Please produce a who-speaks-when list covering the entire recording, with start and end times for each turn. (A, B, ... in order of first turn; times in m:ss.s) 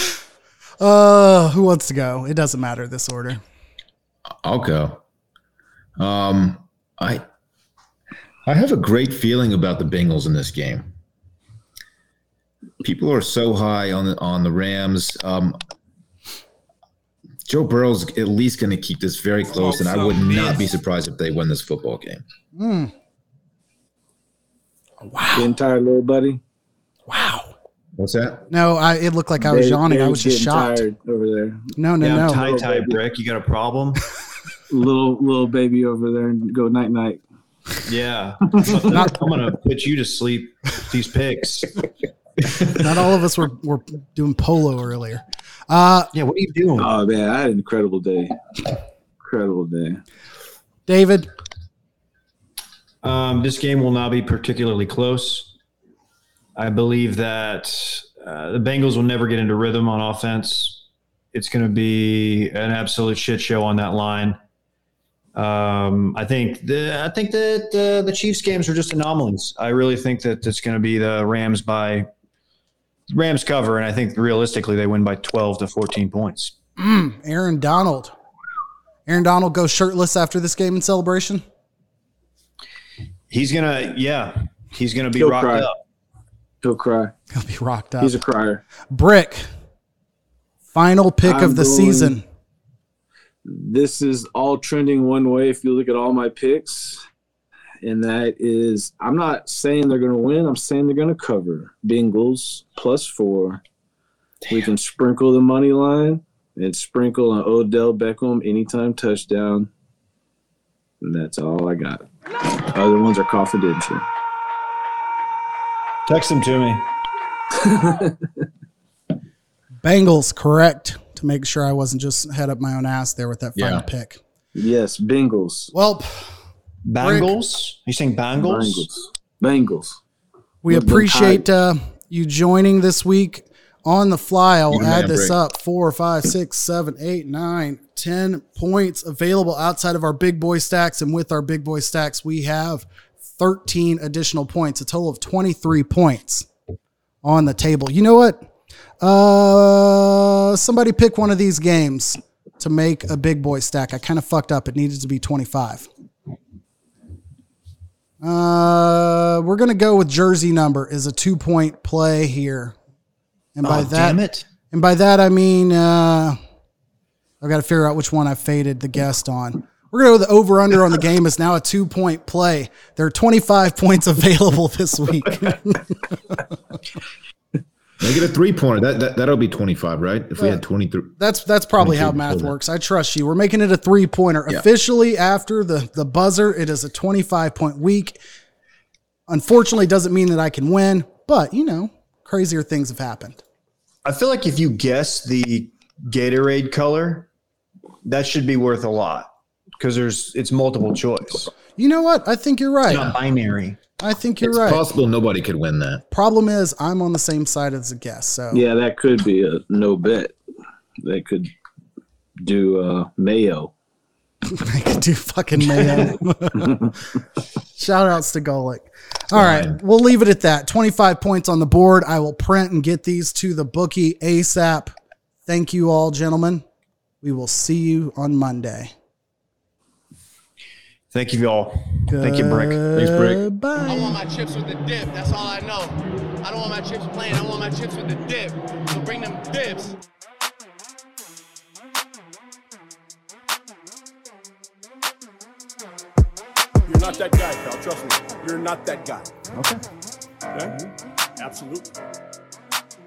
0:00.8-0:03.4 A
0:04.4-0:05.0 B
0:06.0-0:07.2 B
0:08.4-0:10.9 B
0:12.8-0:15.6 B
0:17.5-0:22.2 B
0:19.5-0:20.6 C
0:22.6-0:22.9 A
0:25.0-0:25.5 A
0:25.3-0:26.4 D
0:27.1-0:27.5 A
0:28.0-0:28.5 B
0:28.5-0:30.8 A
0:29.4-0:31.8 D
0:31.8-0:32.5 A
0:32.0-0:34.0 E
0:32.3-0:33.0 D
0:34.7-0:37.2 D
0:37.9-0:41.8 E
0:38.6-0:39.0 D
0:42.7-0:46.1 A
0:46.1-0:46.9 E
0:46.8-0:48.4 D
0:49.2-0:50.0 D
0:50.9-0:51.3 A
0:53.0-0:55.5 E
0:56.6-1:04.4 E
1:05.4-1:12.1 E
1:13.1-1:16.5 E
1:16.8-1:18.1 A
1:19.1-1:21.4 A
1:23.3-1:25.8 E
1:25.2-1:25.7 D
1:26.6-1:27.1 D
1:27.3-1:28.2 A
1:28.0-1:28.6 D
1:28.9-1:29.5 A
1:30.7-1:32.2 A
1:31.2-1:32.2 D
1:33.4-1:37.0 D
1:37.8-1:43.6 D
1:44.5-1:49.7 D
1:51.0-1:52.0 D
1:52.6-1:54.0 D
1:56.1-1:56.8 E
1:57.6-1:58.2 D
1:59.8-2:04.2 A
2:03.6-2:03.8 B
2:04.6-2:05.7 D
2:05.7-2:06.3 A
2:06.9-2:08.9 E
2:07.0-2:07.4 A
2:08.4-2:10.0 D
2:10.6-2:26.5 A
2:10.7-2:11.5 D
2:14.7-2:15.4 B
2:27.2-2:28.5 A
2:29.0-2:35.9 A
2:38.2-2:42.8 A
2:43.6-2:46.4 A
2:43.6-2:44.5 E
2:47.4-2:56.4 A
2:58.0-3:01.1 B
3:01.2-3:08.2 A
3:01.8-3:02.6 B
3:09.3-3:13.4 A
3:14.0-3:17.3 E
3:18.0-3:21.5 E
3:21.8-3:23.2 A
3:22.9-3:23.8 E
3:24.0-3:24.8 A
3:24.4-3:26.0 B
3:26.1-3:28.6 A
3:28.5-3:30.4 D
3:31.0-3:31.5 D
3:32.4-3:33.7 D
3:34.5-3:36.7 A
3:37.8-3:45.0 A
3:39.3-3:39.8 B
3:45.5-3:46.6 A
3:47.2-3:48.9 A
3:51.1-3:52.8 E
3:52.1-3:54.2 A
3:52.9-3:53.4 B
3:53.8-4:00.0 C
4:06.9-4:09.3 F
4:10.5-4:11.9 F